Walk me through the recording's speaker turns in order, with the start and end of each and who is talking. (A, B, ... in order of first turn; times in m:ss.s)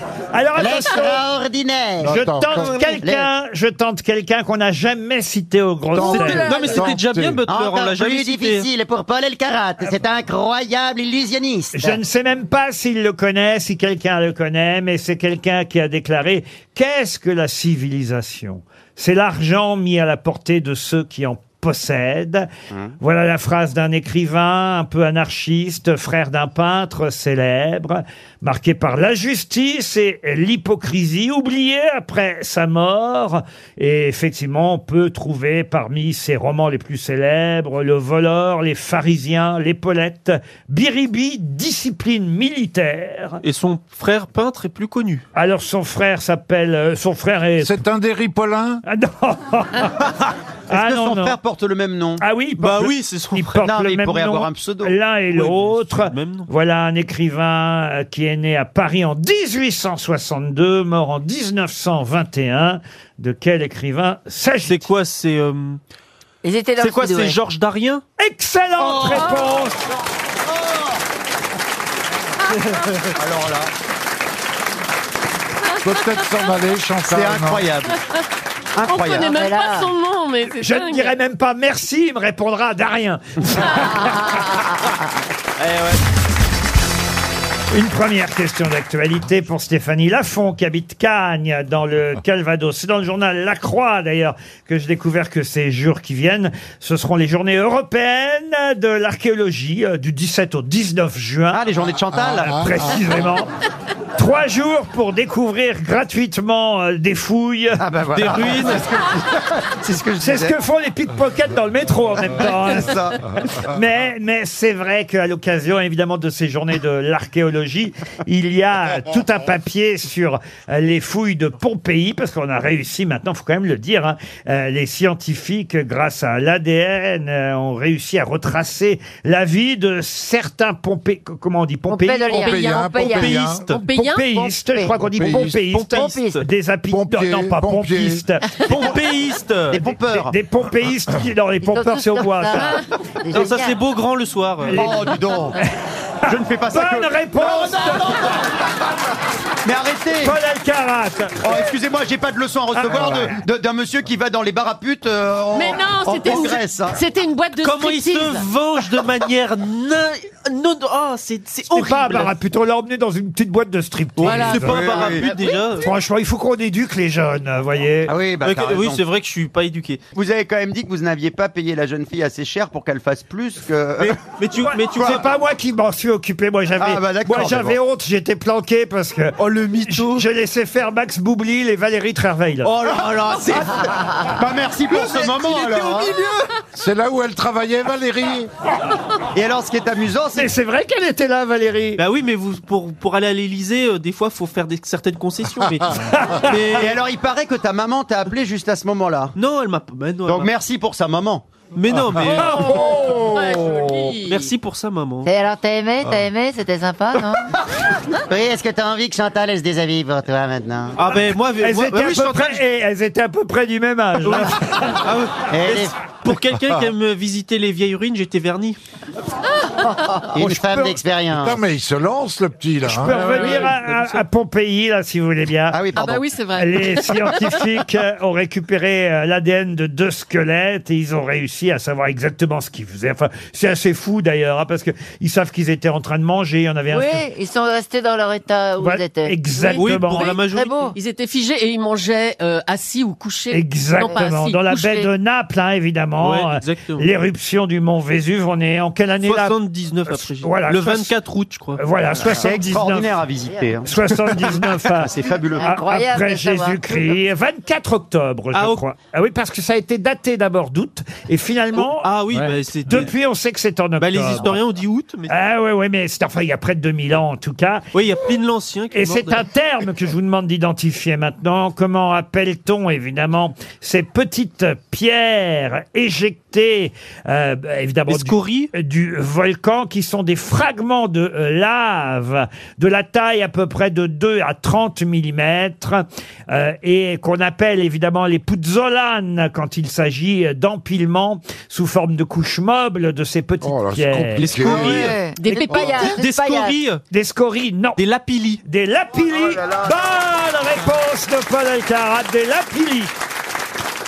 0:00.3-0:01.2 A
0:00.6-0:02.2 B
0:02.0-0:03.0 C
0:02.0-0:06.5 A
0:03.0-0:03.3 B
0:05.9-0:07.4 C
0:06.1-0:08.7 D
0:06.4-0:06.8 E
0:07.5-0:11.8 B
0:11.7-0:22.5 A
0:22.7-0:23.0 B
0:23.0-0:43.4 A
0:43.4-0:45.2 D
0:45.4-0:47.8 A
0:47.6-0:48.8 C
0:48.9-0:50.0 A
0:50.7-0:51.4 A
0:50.7-0:52.2 B
0:52.2-1:04.9 A
0:52.6-0:53.7 D
0:53.6-0:55.0 B
0:55.3-0:56.5 D
1:04.7-1:05.8 D
1:06.4-1:07.4 F
1:06.8-1:08.0 D
1:08.2-1:09.9 A
1:08.8-1:09.4 B
1:10.5-1:11.0 B
1:13.2-1:13.7 B
1:15.8-1:17.7 C
1:17.1-1:18.0 B
1:18.8-1:19.3 B
1:18.9-1:21.2 E
1:19.2-1:19.9 F
1:20.6-1:24.3 A
1:24.6-1:25.0 F
1:27.7-1:41.6 A
1:41.5-1:42.7 B
1:42.1-1:42.9 C
1:42.4-1:43.5 A
1:44.2-1:47.8 A
1:47.8-1:50.5 B
1:48.1-1:48.9 D
1:50.2-2:12.5 A
1:52.3-1:53.3 B
2:11.9-2:13.4 F
2:12.3-2:13.6 C
2:12.3-2:14.4 E
2:13.2-2:13.8 D
2:13.8-2:18.6 A
2:14.7-2:15.0 F
2:15.0-2:15.6 C
2:15.5-2:16.4 D
2:16.0-2:16.4 F
2:16.9-2:18.2 C
2:18.7-2:19.8 D
2:19.7-2:20.3 B
2:20.1-2:22.8 A
2:21.6-2:23.8 F
2:23.3-2:24.9 D
2:24.7-2:25.1 A
2:24.7-2:25.6 B
2:26.3-2:27.9 B
2:26.7-2:28.4 A
2:29.6-2:30.4 B
2:30.2-2:31.4 A
2:31.4-2:37.0 B
2:32.8-2:33.3 A
2:35.5-2:38.4 E
2:37.6-2:42.3 D
2:41.7-2:45.1 A
2:44.2-2:45.9 D
2:44.3-2:44.6 E
2:44.6-2:45.3 B
2:45.8-2:48.1 A
2:48.1-2:49.0 B
2:48.4-2:50.0 D
2:50.1-2:54.2 B
2:54.0-2:55.2 D
2:54.7-3:02.7 A
2:55.0-2:55.2 B
2:56.8-2:57.8 B
2:59.4-3:00.3 D
3:02.6-3:06.4 B
3:05.2-3:06.2 C
3:06.8-3:08.5 C
3:09.3-3:10.5 B
3:10.4-3:12.0 A
3:12.0-3:17.0 D
3:16.2-3:16.5 A
3:16.8-3:19.3 B
3:19.4-3:20.5 D
3:20.3-3:21.4 B
3:21.7-3:22.8 D
3:22.1-3:23.9 C
3:22.4-3:24.5 E
3:24.2-3:25.3 D
3:25.2-3:27.5 F
3:28.3-3:31.0 B
3:31.0-3:32.6 D
3:31.2-3:35.0 A
3:34.2-3:38.8 D
3:35.5-3:35.9 B
3:40.1-3:41.6 B
3:40.4-3:41.0 A
3:41.3-3:43.2 C
3:42.9-3:45.8 A
3:43.1-3:44.2 D
3:43.3-3:43.6 E
3:45.7-3:46.3 B
3:45.9-3:47.7 E
3:46.6-3:57.2 A
3:56.9-3:59.4 F
3:58.8-4:00.4 A
3:59.6-4:05.1 E
3:59.8-4:00.8 D
4:00.5-4:01.0 F
4:03.5-4:09.6 A
4:06.2-4:07.1 D
4:09.2-4:11.8 D
4:10.1-4:11.1 A
4:11.8-4:13.1 A
4:12.2-4:15.7 B
4:13.5-4:13.8 F
4:13.8-4:22.1 A
4:15.6-4:17.0 F
4:18.5-4:18.8 D
4:21.8-4:23.1 D
4:22.9-4:24.6 A
4:24.0-4:25.4 D
4:25.3-4:27.9 A
4:27.9-4:29.5 D
4:28.9-4:54.5 A
4:38.1-4:38.7 D
4:53.6-4:55.2 C
4:54.4-4:55.2 D
4:54.7-4:56.8 F
4:55.3-4:56.2 E
4:56.0-4:57.0 D
4:57.1-4:58.0 A
4:58.0-4:58.6 D
4:58.6-5:03.1 A
4:59.2-5:00.0 B